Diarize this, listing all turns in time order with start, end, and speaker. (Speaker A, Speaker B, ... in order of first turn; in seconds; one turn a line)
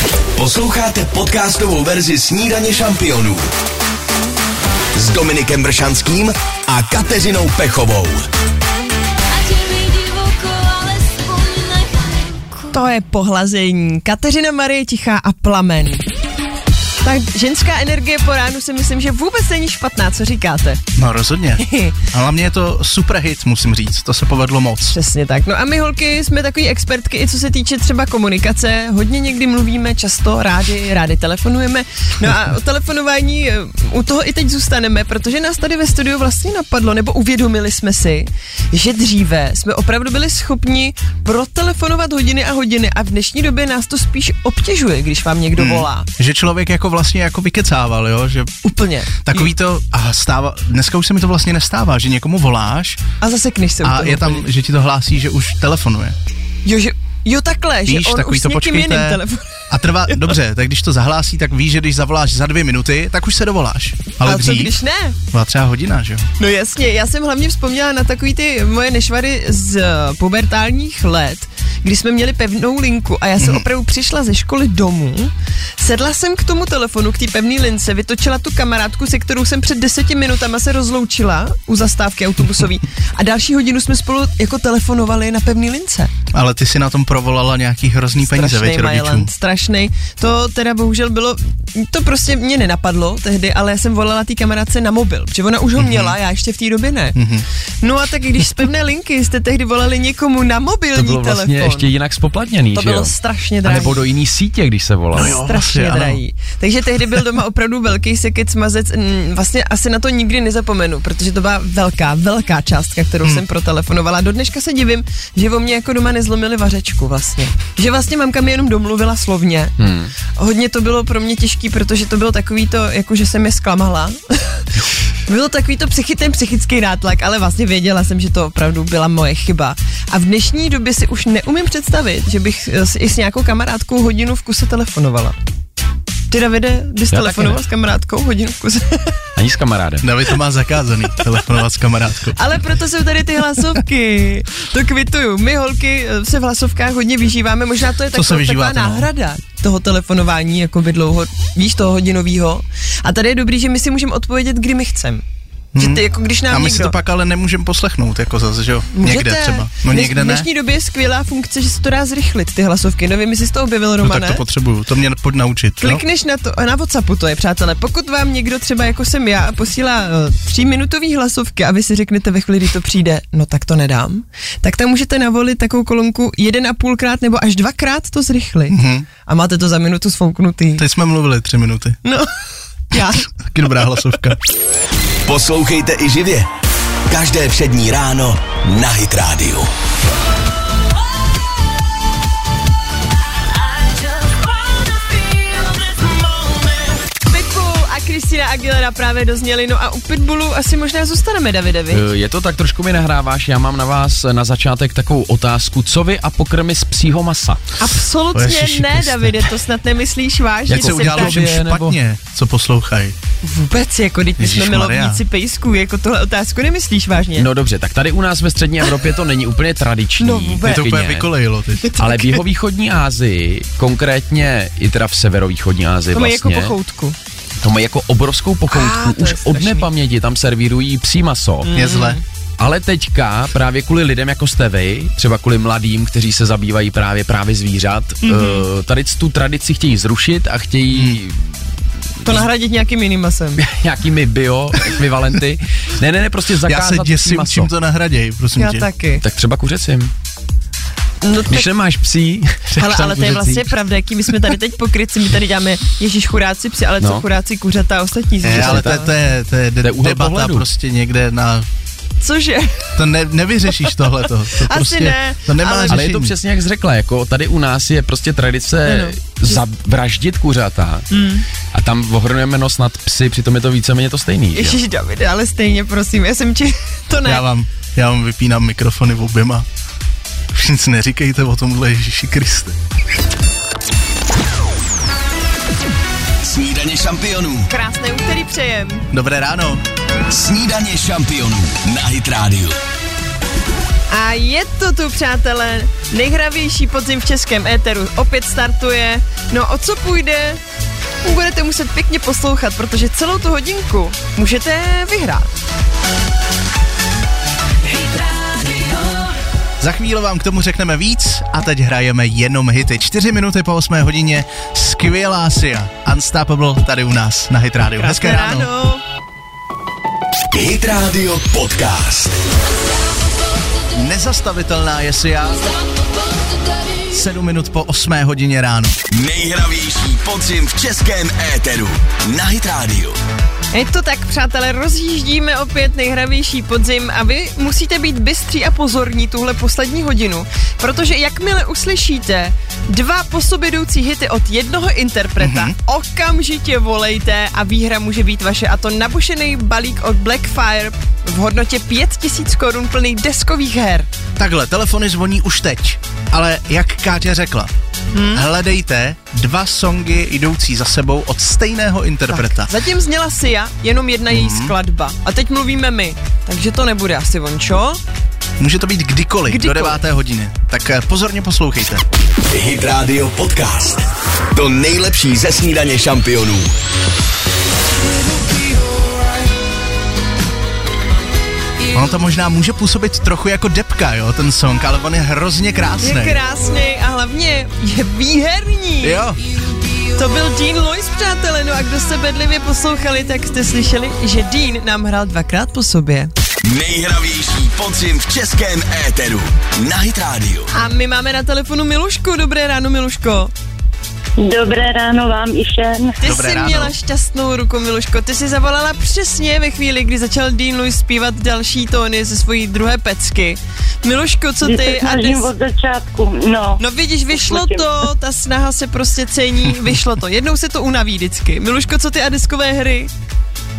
Speaker A: 0.3-3.5
Speaker A: 4.9-8.2
Speaker B: 9.3-12.8
Speaker C: 12.7-16.1
Speaker C: 17.0-20.8
Speaker D: 20.9-25.0
Speaker C: 21.6-22.0
Speaker C: 24.9-46.1
Speaker D: 45.5-48.6
Speaker C: 48.6-49.5
Speaker D: 49.2-53.0
Speaker C: 53.2-54.5
Speaker D: 53.8-56.1
Speaker C: 56.6-60.3
Speaker D: 57.9-64.7
Speaker C: 64.2-65.2
Speaker D: 65.3-66.3
Speaker C: 66.4-86.1
Speaker D: 73.4-73.7
Speaker D: 86.3-89.3
Speaker C: 88.2-97.2
Speaker D: 95.8-96.2
Speaker D: 97.1-97.4
Speaker C: 97.8-101.9
Speaker E: 100.9-103.1
Speaker C: 102.7-104.0
Speaker E: 103.6-105.4
Speaker D: 105.1-106.2
Speaker C: 105.2-119.8
Speaker E: 119.8-120.1
Speaker C: 120.3-124.7
Speaker C: 125.3-135.3
Speaker C: 136.3-139.2
Speaker E: 137.1-137.6
Speaker E: 139.3-140.1
Speaker D: 140.0-142.4
Speaker C: 142.3-155.2
Speaker D: 148.1-149.1
Speaker D: 155.7-160.5
Speaker C: 155.8-156.9
Speaker C: 158.9-164.4
Speaker D: 164.0-166.0
Speaker C: 165.8-180.8
Speaker D: 178.7-179.1
Speaker D: 180.8-182.0
Speaker C: 182.0-182.3
Speaker C: 182.9-183.3
Speaker D: 182.9-184.4
Speaker A: 185.2-186.5
Speaker A: 187.1-189.7
Speaker C: 197.2-202.1
Speaker E: 201.9-207.6
Speaker C: 207.8-211.4
Speaker D: 208.3-209.5
Speaker E: 210.7-212.0
Speaker D: 210.7-213.2
Speaker C: 213.4-217.5
Speaker D: 214.4-215.2
Speaker E: 217.4-221.3
Speaker C: 220.2-220.9
Speaker D: 220.6-221.9
Speaker C: 221.8-222.4
Speaker E: 222.0-226.7
Speaker C: 226.1-227.2
Speaker E: 227.6-231.7
Speaker C: 228.7-229.9
Speaker C: 231.6-232.2
Speaker D: 231.7-232.2
Speaker E: 232.6-241.4
Speaker C: 238.2-238.6
Speaker D: 240.9-241.2
Speaker C: 242.2-243.6
Speaker E: 243.6-247.7
Speaker D: 246.6-248.9
Speaker C: 248.6-249.2
Speaker E: 249.2-250.1
Speaker C: 251.2-251.7
Speaker E: 251.5-253.7
Speaker C: 252.8-259.1
Speaker D: 258.4-261.7
Speaker E: 258.5-258.9
Speaker E: 259.8-260.6
Speaker C: 262.2-263.0
Speaker D: 262.9-266.3
Speaker C: 264.6-266.0
Speaker E: 265.9-271.1
Speaker C: 268.8-269.6
Speaker C: 271.1-271.4
Speaker E: 271.7-274.8
Speaker C: 274.5-277.4
Speaker D: 277.2-279.6
Speaker D: 280.5-282.8
Speaker A: 286.4-287.7
Speaker C: 287.7-289.0
Speaker D: 289.1-289.8
Speaker A: 290.3-292.8
Speaker C: 294.1-300.6
Speaker C: 301.2-305.5
Speaker D: 309.8-318.7
Speaker C: 317.9-319.0
Speaker A: 320.5-322.4
Speaker B: 323.1-323.9
Speaker D: 323.9-325.6
Speaker B: 325.5-327.1
Speaker D: 327.1-329.0
Speaker A: 329.1-333.2
Speaker C: 333.7-354.1
Speaker D: 345.4-345.7
Speaker D: 354.4-357.7
Speaker C: 358.1-358.4
Speaker D: 358.3-362.7
Speaker C: 362.3-368.0
Speaker D: 364.3-364.7
Speaker D: 368.6-372.0
Speaker C: 369.5-370.0
Speaker A: 372.5-376.7
Speaker D: 381.9-386.4
Speaker C: 386.0-389.2
Speaker D: 389.0-389.4
Speaker C: 390.1-396.3
Speaker A: 396.6-400.7
Speaker C: 400.7-403.5
Speaker F: 404.4-406.1
Speaker C: 406.2-415.5
Speaker D: 406.2-406.9
Speaker F: 414.6-418.0
Speaker C: 416.8-423.1